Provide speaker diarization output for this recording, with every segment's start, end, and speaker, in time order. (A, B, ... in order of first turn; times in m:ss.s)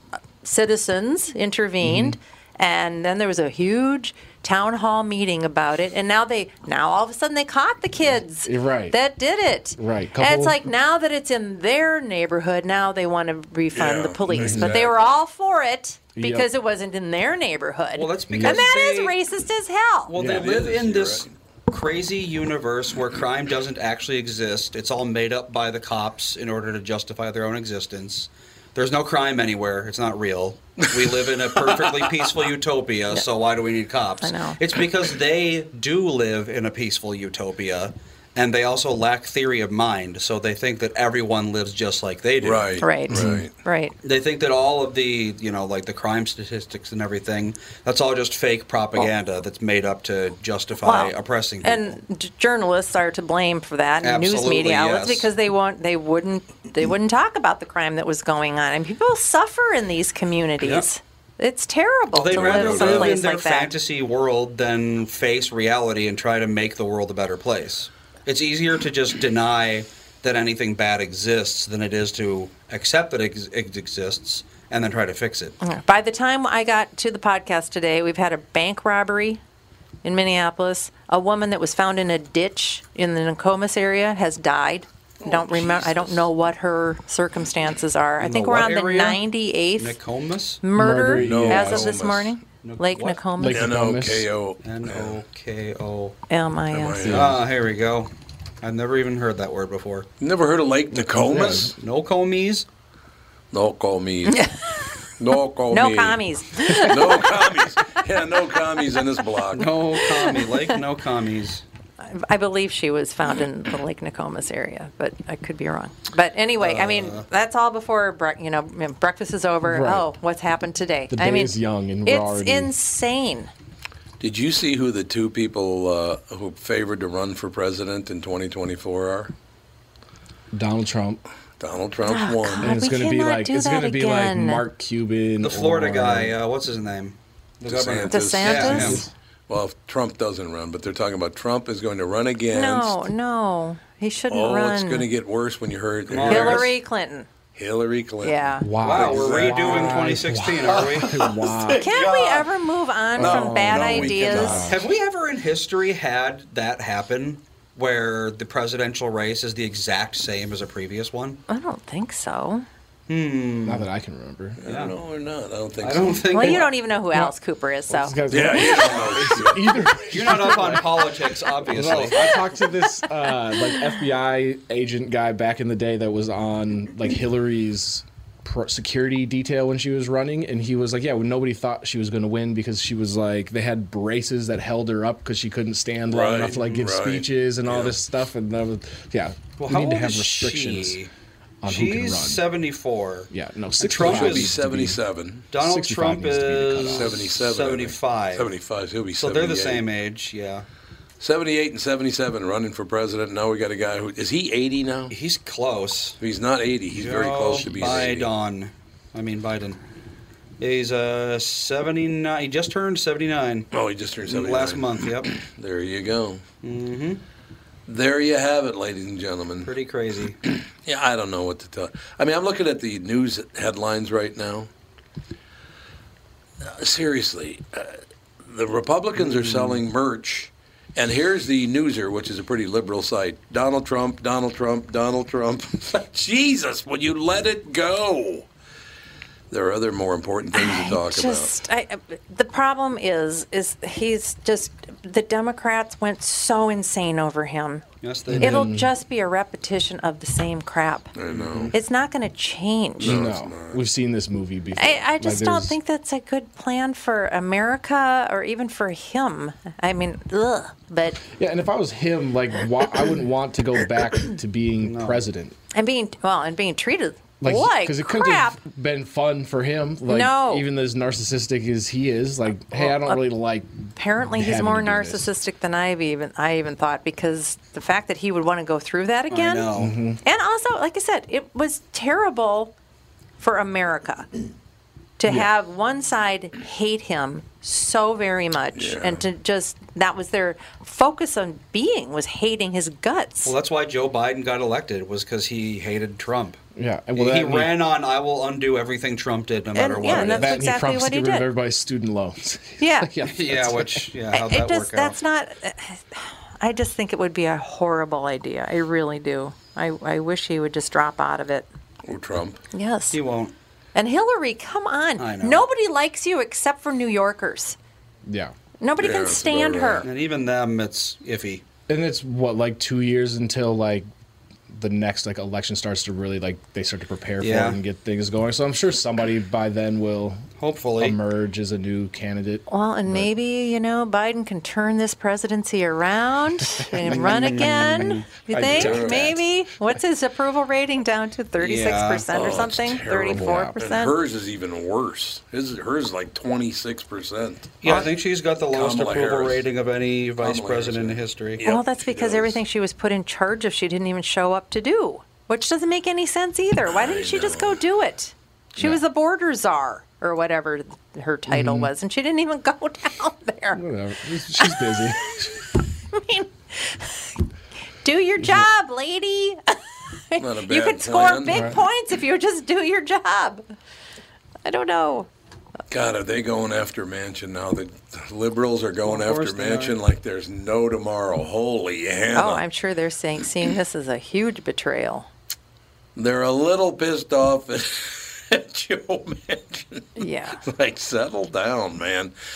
0:00.4-0:20.1 A
0:01.8-0:02.2 B
0:08.4-0:09.0 B
0:09.8-0:10.6 B
0:13.7-0:14.9 C
0:14.3-0:14.8 B
0:16.2-0:16.5 B
0:17.9-0:19.2 D
0:18.3-0:18.6 B
0:20.1-0:42.8 D
0:20.2-0:20.5 B
0:20.2-0:21.3 C
0:34.2-0:34.6 A
0:42.4-0:43.5 C
0:42.8-0:44.0 A
0:43.1-0:43.5 B
0:44.0-0:52.0 D
0:50.8-1:03.7 A
0:54.0-0:55.3 D
1:00.6-1:00.9 D
1:02.1-1:15.6 D
1:02.3-1:03.1 C
1:15.6-1:19.4 A
1:20.0-1:30.0 A
1:25.2-1:26.3 C
1:28.2-1:29.2 D
1:29.8-1:30.6 D
1:30.6-1:33.7 A
1:30.8-1:31.9 B
1:31.2-1:32.4 C
1:32.6-1:33.2 D
1:33.4-1:34.3 B
1:33.5-1:35.2 C
1:34.6-1:36.2 D
1:36.3-1:37.2 A
1:36.7-1:37.4 C
1:37.0-1:37.4 B
1:37.1-1:38.1 D
1:38.6-1:40.1 D
1:40.2-1:41.8 C
1:41.0-1:41.8 B
1:41.8-1:42.7 D
1:43.5-1:44.5 C
1:44.3-1:44.6 A
1:45.2-1:49.7 C
1:45.7-1:48.0 A
1:49.5-1:51.6 D
1:52.0-2:03.5 A
1:56.6-1:57.3 D
1:59.6-2:00.1 B
2:01.1-2:02.7 B
2:04.2-2:09.3 C
2:10.5-2:11.2 B
2:11.6-2:12.7 C
2:12.0-2:14.6 A
2:12.6-2:16.4 B
2:15.4-2:19.1 D
2:17.7-2:23.1 C
2:18.1-2:19.1 A
2:18.7-2:19.0 B
2:22.5-2:25.1 A
2:24.3-2:26.7 C
2:26.1-2:26.7 D
2:26.2-2:27.3 A
2:27.5-2:32.5 C
2:28.2-2:28.7 A
2:28.6-2:31.9 B
2:28.8-2:31.2 D
2:31.8-2:34.6 A
2:33.2-2:34.8 C
2:33.2-2:34.9 B
2:34.7-2:41.4 D
2:41.5-2:42.6 A
2:43.1-2:43.9 D
2:43.6-2:44.6 B
2:44.6-2:46.3 C
2:44.7-2:45.0 D
2:45.8-2:46.7 D
2:46.3-2:48.2 A
2:46.4-2:47.3 B
2:47.9-2:51.1 B
2:48.3-2:50.6 C
2:48.9-2:49.2 D
2:50.1-2:52.4 D
2:51.6-3:11.0 B
3:06.1-3:08.0 C
3:09.6-3:11.1 D
3:11.6-3:12.4 B
3:11.7-3:14.5 D
3:13.3-3:17.1 B
3:14.0-3:15.5 C
3:15.5-3:18.5 D
3:16.9-3:19.9 C
3:19.2-3:20.7 D
3:21.2-3:25.1 C
3:25.1-3:26.2 D
3:26.2-3:28.3 C
3:26.9-3:29.8 D
3:30.6-3:33.7 D
3:33.7-3:36.4 C
3:34.2-3:35.3 D
3:36.6-3:37.2 D
3:37.9-3:39.7 C
3:39.6-3:40.4 D
3:40.5-3:44.7 C
3:46.6-3:58.5 C
3:49.2-3:49.8 D
3:59.5-4:01.5 C
4:00.5-4:07.8 A
4:08.0-4:08.7 D
4:08.3-4:08.9 B
4:08.4-4:11.1 A
4:11.2-4:11.7 C
4:11.3-4:11.7 D
4:11.7-4:13.2 A
4:13.0-4:13.8 C
4:13.0-4:15.8 B
4:14.8-4:21.2 A
4:21.3-4:25.6 B
4:24.8-4:25.2 D
4:25.7-4:28.6 A
4:27.4-4:35.3 B
4:30.1-4:30.6 A
4:32.7-4:33.2 A
4:34.0-4:39.7 A
4:39.3-4:39.9 D
4:39.8-4:40.2 B
4:40.2-4:42.7 A
4:43.4-4:44.3 A
4:45.2-4:53.5 A
4:48.8-4:49.2 C
4:53.4-4:56.6 D
4:56.8-4:57.8 B
4:57.2-5:00.6 D
4:59.8-5:01.5 A
5:00.0-5:04.1 B
5:02.8-5:03.1 A
5:03.3-5:05.2 D
5:04.3-5:11.7 A
5:12.0-5:12.6 C
5:12.7-5:13.2 A
5:13.1-5:13.5 D
5:14.0-5:17.8 A
5:15.2-5:15.7 D
5:18.2-5:18.6 B
5:18.8-5:20.1 A
5:19.0-5:20.1 C
5:20.0-5:21.6 D
5:21.9-5:24.1 B
5:24.7-5:30.5 B
5:27.4-5:27.8 D
5:30.6-5:31.2 D
5:31.0-5:33.3 B
5:32.7-5:44.2 A
5:36.8-5:39.4 B
5:37.0-5:38.3 D
5:38.6-5:39.4 C
5:41.6-5:42.4 D
5:42.3-5:48.1 C
5:43.3-5:43.7 B
5:47.8-5:51.6 D
5:48.7-5:49.7 C
5:50.4-5:52.6 C
5:51.6-6:03.8 A
5:56.9-5:57.8 C
6:01.5-6:01.9 B
6:03.7-6:05.6 B
6:04.6-6:07.3 A
6:08.0-6:09.8 A
6:10.3-6:13.6 A
6:10.4-6:11.7 C
6:11.5-6:11.8 B
6:14.6-6:15.3 A
6:15.9-6:22.6 C
6:19.0-6:20.0 D
6:22.3-6:25.3 A
6:26.2-6:32.3 C
6:30.2-6:30.6 A